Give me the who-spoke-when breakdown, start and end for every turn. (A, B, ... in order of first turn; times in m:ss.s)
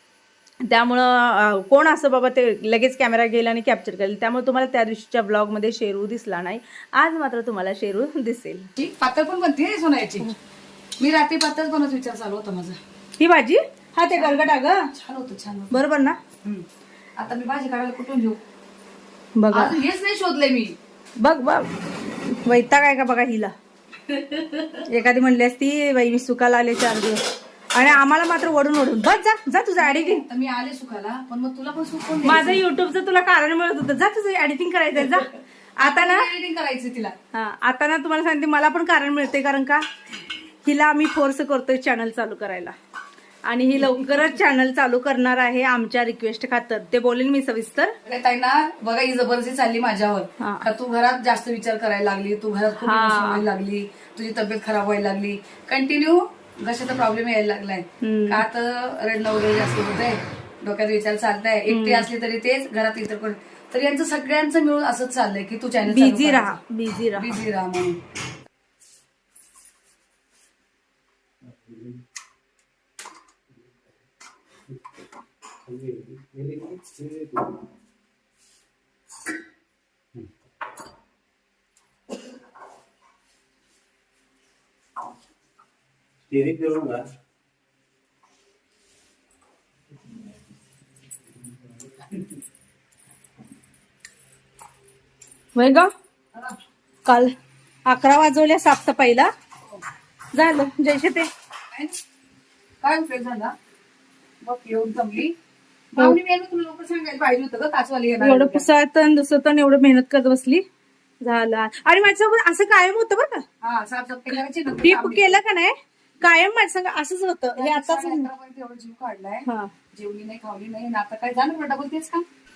0:00.6-0:08.7 A
0:08.8-0:10.4 B
0:11.0-0:12.8 B
0:13.2-0:14.9 A
0:14.1-0:15.8 B
0:15.7-0:16.2 A
0:17.2-0:18.4 B
0:19.4-0:19.8 A
0:19.5-0:20.8 B
0:21.2-0:23.5 A
0:24.0-0:24.8 B
0:24.8-0:30.2 A
0:29.8-0:32.6 B
0:32.2-0:36.3 A
0:35.1-0:37.1 B
0:37.3-0:39.8 A
0:40.6-0:42.7 A
0:43.4-0:47.9 A
0:48.0-1:06.6 B
0:50.4-0:50.6 A
0:52.8-0:53.4 A
0:58.0-0:58.4 A
1:01.7-1:02.1 A
1:05.9-1:07.3 A
1:07.1-1:08.0 B
1:15.7-1:17.4 C
1:26.3-1:27.1 C
1:35.5-1:35.9 A
1:37.0-1:37.3 A
1:37.8-1:39.3 A
1:40.3-1:41.3 A
1:41.7-1:42.0 B
1:42.8-1:43.6 B
1:44.4-1:45.3 B
1:45.9-1:48.6 B
1:48.2-1:50.6 A
1:51.2-1:53.4 A
1:53.6-1:55.4 B
1:54.3-1:58.3 A
1:57.6-2:02.2 B
1:59.4-1:59.7 A